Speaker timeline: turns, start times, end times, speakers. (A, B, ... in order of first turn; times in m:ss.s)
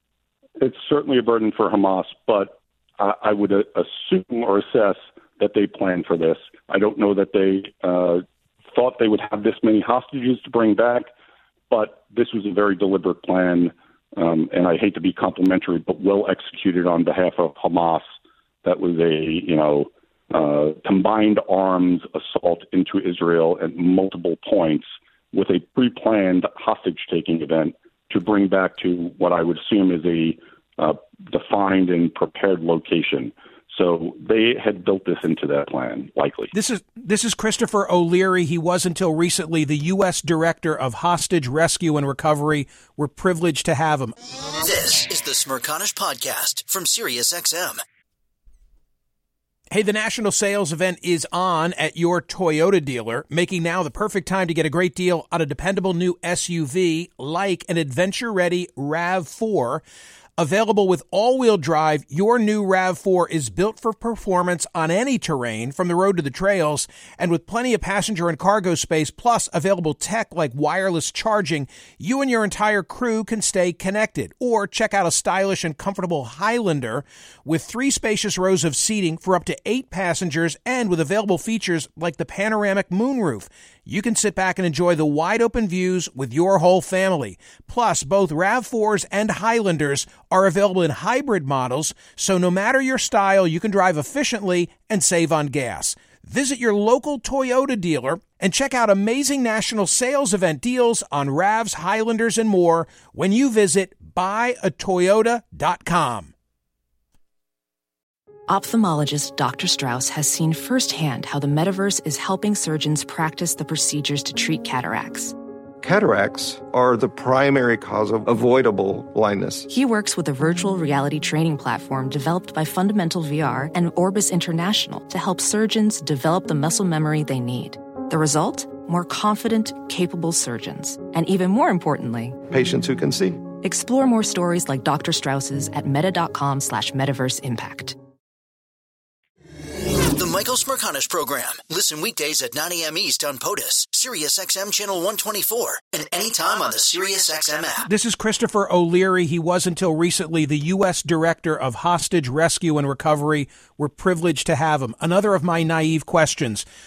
0:00.6-0:11.1 A
0:11.7-0:18.1 A
0:18.6-0:36.5 A
0:36.5-0:44.2 B
0:44.6-0:47.8 C
0:49.7-0:59.8 B
1:00.4-1:46.3 B
1:48.5-1:55.4 D
1:55.8-1:59.7 E
1:59.7-2:12.4 D
2:12.5-2:13.4 E
2:13.6-2:18.0 D
2:20.1-2:27.9 C
2:27.9-2:36.7 B